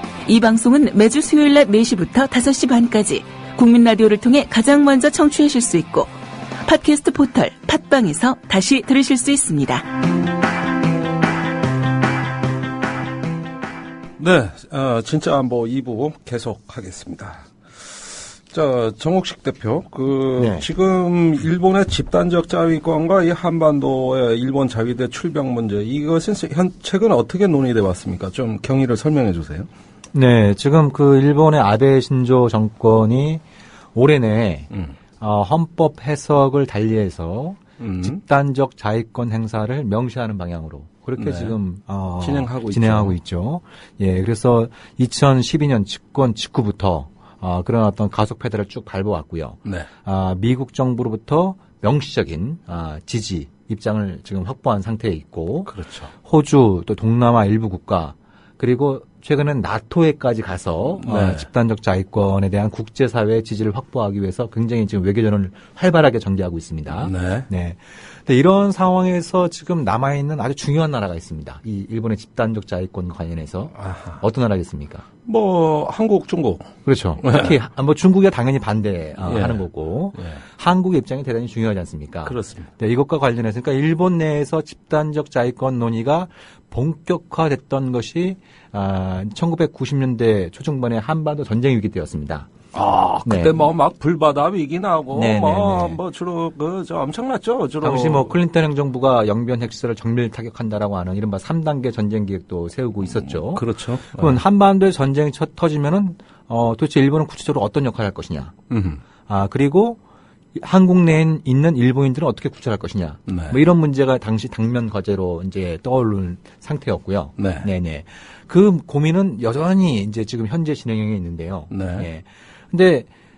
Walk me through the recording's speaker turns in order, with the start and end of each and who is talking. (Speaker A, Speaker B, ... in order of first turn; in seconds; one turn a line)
Speaker A: 0.3-6.1
Speaker A: 6.6-9.9
Speaker B: 14.2-29.7
Speaker C: 20.4-20.7
Speaker C: 30.1-33.4
Speaker C: 33.9-55.7
Speaker B: 37.8-38.2
Speaker B: 41.2-41.6
Speaker B: 42.2-43.2
Speaker B: 55.7-56.1
Speaker C: 56.2-75.0
Speaker B: 61.0-61.5
Speaker B: 67.0-67.5
Speaker B: 73.8-74.2
Speaker B: 75.3-77.5
Speaker C: 76.8-92.5
Speaker B: 79.2-79.7
Speaker B: 82.3-82.7
Speaker B: 92.7-98.4
Speaker C: 93.2-93.7
Speaker C: 95.1-96.0
Speaker C: 97.8-108.5
Speaker B: 103.2-104.4
Speaker B: 108.7-109.0
Speaker C: 109.3-110.0
Speaker C: 110.6-123.1
Speaker B: 113.3-113.6
Speaker B: 117.4-117.7
Speaker B: 121.7-122.1